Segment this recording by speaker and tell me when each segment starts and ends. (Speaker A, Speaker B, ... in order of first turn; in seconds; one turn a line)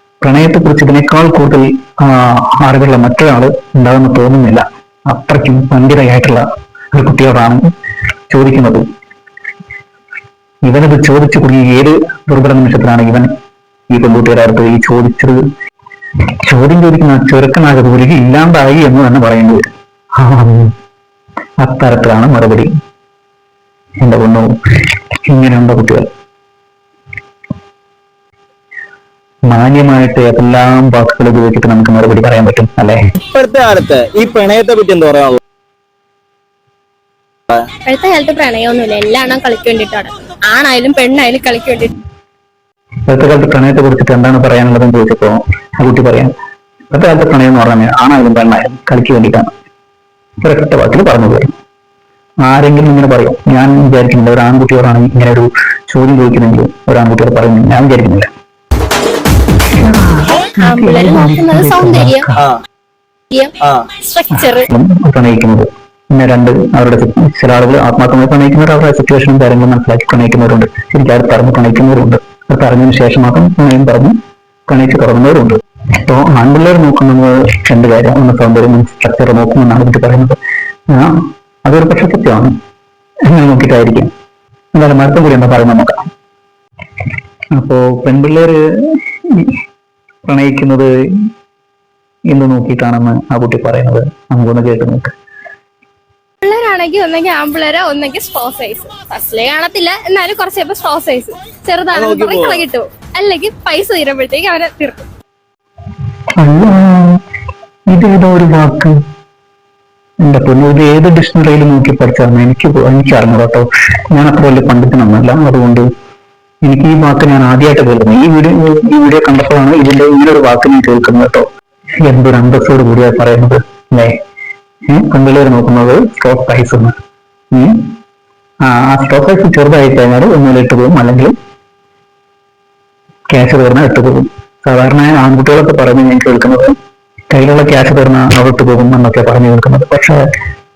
Speaker A: 0.2-7.7
Speaker A: 8.3-8.8
Speaker A: 10.6-13.3
Speaker A: 13.9-15.4
Speaker A: 16.4-20.7
Speaker A: 21.6-22.7
Speaker A: 24.0-26.1
Speaker A: 29.5-33.0
Speaker B: 33.2-35.4
Speaker C: 37.8-41.9
Speaker A: 43.1-46.3
Speaker A: 46.9-49.5
Speaker A: 50.4-51.5
Speaker A: 52.4-58.3
Speaker A: 59.8-62.5
Speaker C: 60.6-62.3
Speaker C: 63.3-64.7
Speaker B: 63.6-63.9
Speaker A: 64.3-74.2
Speaker A: 74.7-80.4
Speaker A: 80.9-82.6
Speaker A: 83.3-84.1
Speaker A: 84.7-86.0
Speaker A: 87.5-89.5
Speaker A: 90.2-90.9
Speaker A: 92.3-95.1
Speaker C: 96.4-105.1
Speaker B: 101.9-102.7
Speaker A: 106.4-107.2
Speaker A: 107.9-109.0
Speaker A: 110.2-115.9
Speaker A: 116.6-121.5
Speaker A: 122.0-124.2
Speaker A: 124.9-127.0
Speaker A: 127.5-127.9
Speaker A: 128.6-131.3
Speaker A: 133.3-136.8
Speaker A: 137.3-140.2